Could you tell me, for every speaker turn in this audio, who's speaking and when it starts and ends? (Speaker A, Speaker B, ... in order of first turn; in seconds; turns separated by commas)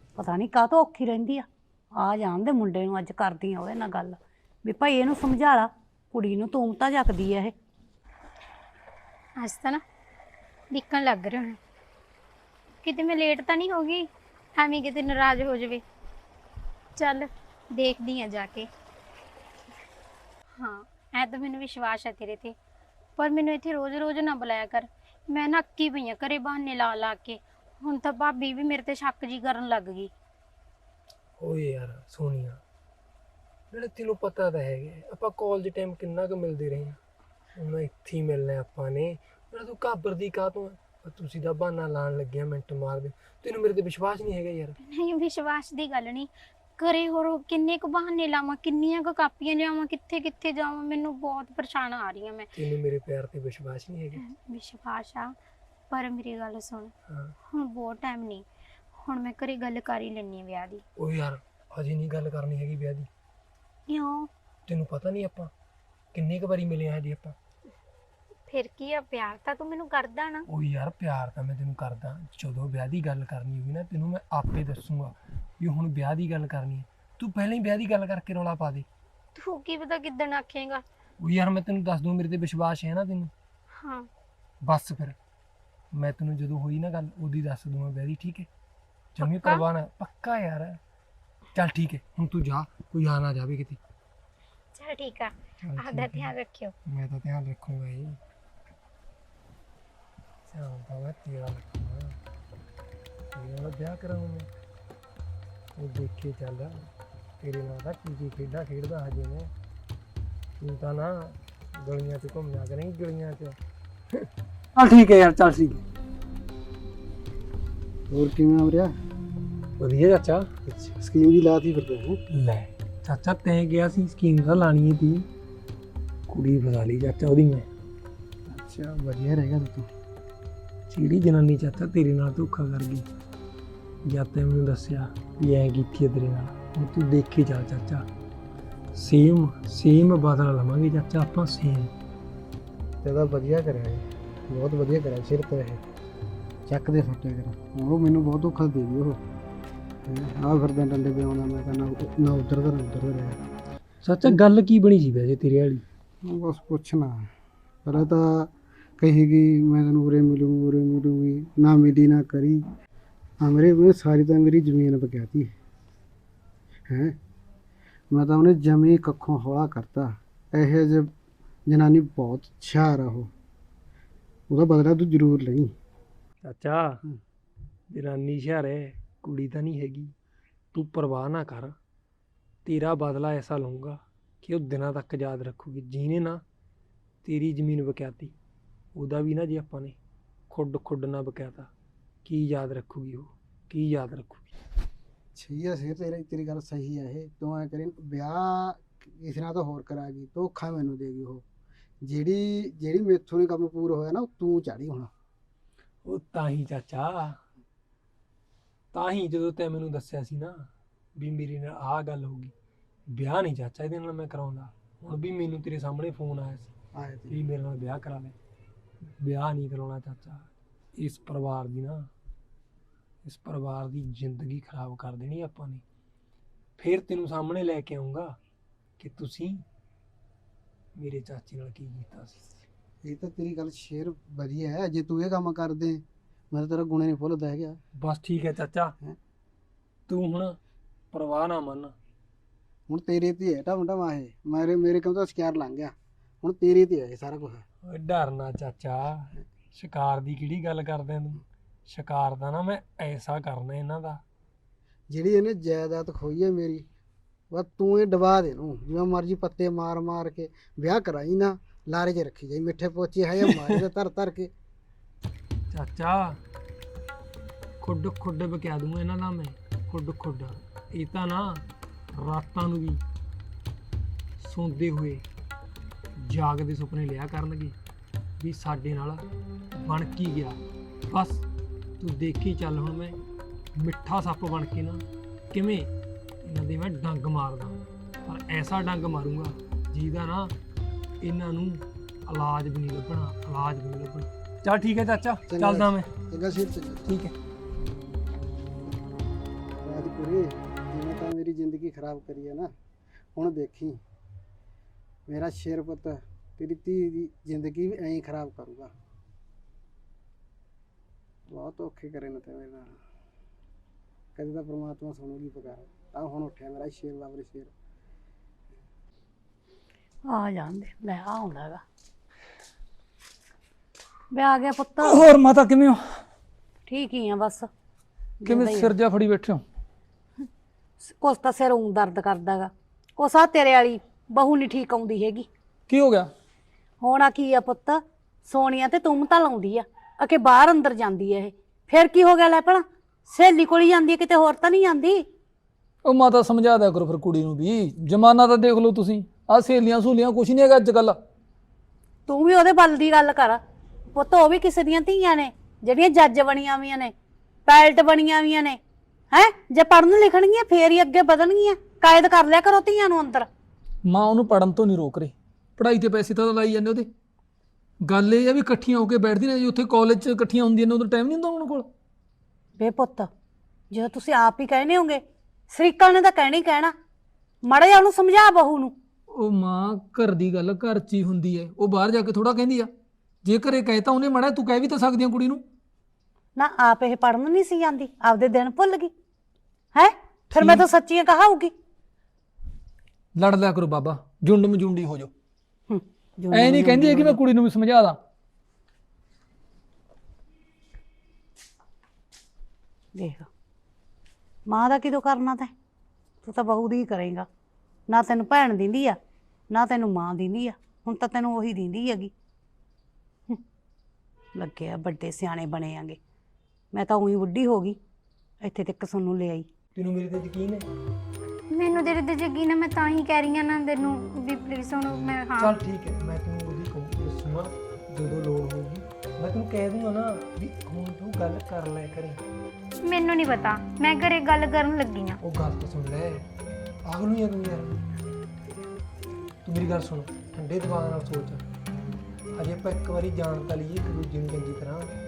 Speaker A: 0.1-7.5, Speaker B: 9.4-9.8, Speaker B: 10.7-11.6, Speaker B: 12.8-15.8, Speaker B: 16.9-18.7, Speaker B: 20.6-22.5, Speaker B: 23.2-30.1, Speaker C: 31.4-32.6, Speaker C: 33.7-37.0, Speaker C: 37.5-44.8, Speaker B: 44.8-52.5, Speaker C: 52.5-54.2, Speaker B: 54.1-55.3, Speaker B: 55.9-56.9, Speaker C: 57.1-57.3, Speaker B: 57.5-60.8, Speaker C: 61.0-63.1, Speaker B: 63.9-64.3, Speaker C: 64.7-65.5, Speaker C: 66.1-67.3, Speaker B: 68.5-70.5, Speaker C: 70.5-78.9, Speaker B: 79.3-80.8, Speaker C: 81.2-83.3, Speaker B: 83.8-84.1, Speaker C: 84.6-85.2, Speaker C: 85.9-88.5, Speaker C: 89.2-90.8, Speaker B: 89.2-89.7, Speaker C: 91.5-93.8, Speaker B: 94.7-96.7, Speaker C: 95.6-96.3, Speaker C: 96.9-98.2, Speaker C: 100.5-102.2, Speaker C: 103.3-104.5, Speaker C: 105.7-106.8, Speaker C: 107.4-109.5, Speaker C: 110.6-113.6, Speaker C: 114.8-115.8, Speaker D: 118.1-118.9, Speaker C: 119.8-120.5, Speaker D: 120.7-122.2, Speaker C: 122.3-125.3, Speaker C: 126.3-127.7, Speaker D: 128.5-129.9, Speaker C: 130.9-133.1, Speaker C: 134.0-138.1, Speaker C: 138.9-141.9, Speaker D: 143.0-145.8, Speaker D: 146.7-149.2, Speaker D: 150.1-153.4, Speaker C: 154.0-155.8, Speaker D: 156.2-157.3, Speaker D: 157.8-162.6, Speaker D: 163.4-165.5, Speaker D: 166.9-167.2, Speaker D: 168.1-171.1, Speaker D: 171.7-173.3, Speaker D: 174.5-175.7, Speaker C: 176.4-177.0, Speaker C: 177.9-180.1, Speaker C: 180.7-181.8, Speaker C: 182.6-186.4, Speaker C: 187.2-188.3, Speaker C: 188.9-190.0, Speaker C: 190.5-191.7, Speaker C: 192.2-194.5, Speaker D: 195.3-201.4, Speaker D: 202.0-205.1, Speaker C: 206.0-207.4, Speaker C: 208.9-212.5, Speaker C: 213.1-216.7, Speaker D: 216.9-217.4, Speaker C: 217.3-218.3, Speaker C: 219.2-222.1, Speaker C: 223.2-225.8, Speaker C: 226.8-228.3, Speaker C: 229.0-229.6, Speaker C: 230.9-232.6, Speaker D: 233.0-237.8, Speaker C: 238.0-238.9, Speaker C: 240.1-240.6, Speaker C: 241.1-241.9, Speaker D: 242.9-247.6, Speaker C: 247.9-254.2, Speaker D: 255.1-256.9, Speaker D: 257.5-264.5, Speaker C: 265.7-266.4, Speaker C: 267.8-271.6, Speaker C: 272.1-273.0, Speaker C: 274.4-275.2, Speaker C: 276.2-277.8, Speaker C: 278.4-279.2, Speaker C: 279.8-281.4, Speaker C: 282.0-283.2, Speaker C: 283.8-285.9, Speaker C: 286.4-290.5, Speaker C: 291.2-296.1, Speaker D: 295.5-297.1, Speaker C: 297.1-297.3, Speaker D: 299.8-302.7, Speaker D: 303.3-304.0, Speaker D: 305.3-308.9, Speaker D: 311.5-312.9, Speaker D: 314.4-317.7, Speaker A: 320.3-321.8, Speaker A: 324.3-325.4, Speaker E: 325.0-326.1, Speaker A: 326.9-327.7, Speaker A: 328.4-328.9, Speaker E: 328.4-329.6, Speaker A: 331.0-335.5, Speaker E: 335.9-336.3, Speaker A: 337.0-345.2, Speaker E: 346.0-351.2, Speaker A: 352.3-353.6, Speaker A: 354.1-357.1, Speaker A: 357.6-358.8, Speaker A: 359.3-363.5, Speaker E: 364.0-367.1, Speaker E: 368.0-371.9, Speaker A: 372.8-373.3, Speaker A: 373.9-376.9, Speaker A: 377.6-378.9, Speaker E: 379.3-382.9, Speaker E: 383.4-385.6, Speaker A: 386.6-389.1, Speaker A: 389.9-391.7, Speaker E: 390.5-390.9, Speaker E: 393.3-395.3, Speaker A: 395.9-397.4, Speaker E: 396.5-398.2, Speaker A: 403.1-403.5, Speaker A: 404.7-405.7, Speaker A: 406.4-407.5, Speaker A: 408.1-409.2, Speaker A: 409.7-412.3, Speaker A: 414.6-416.2, Speaker A: 416.9-418.0, Speaker A: 418.6-419.7, Speaker C: 419.9-420.8, Speaker B: 421.7-425.7, Speaker C: 425.6-432.4, Speaker B: 433.0-435.4, Speaker C: 435.4-436.5, Speaker C: 437.0-438.0, Speaker C: 439.6-441.6, Speaker C: 442.5-445.1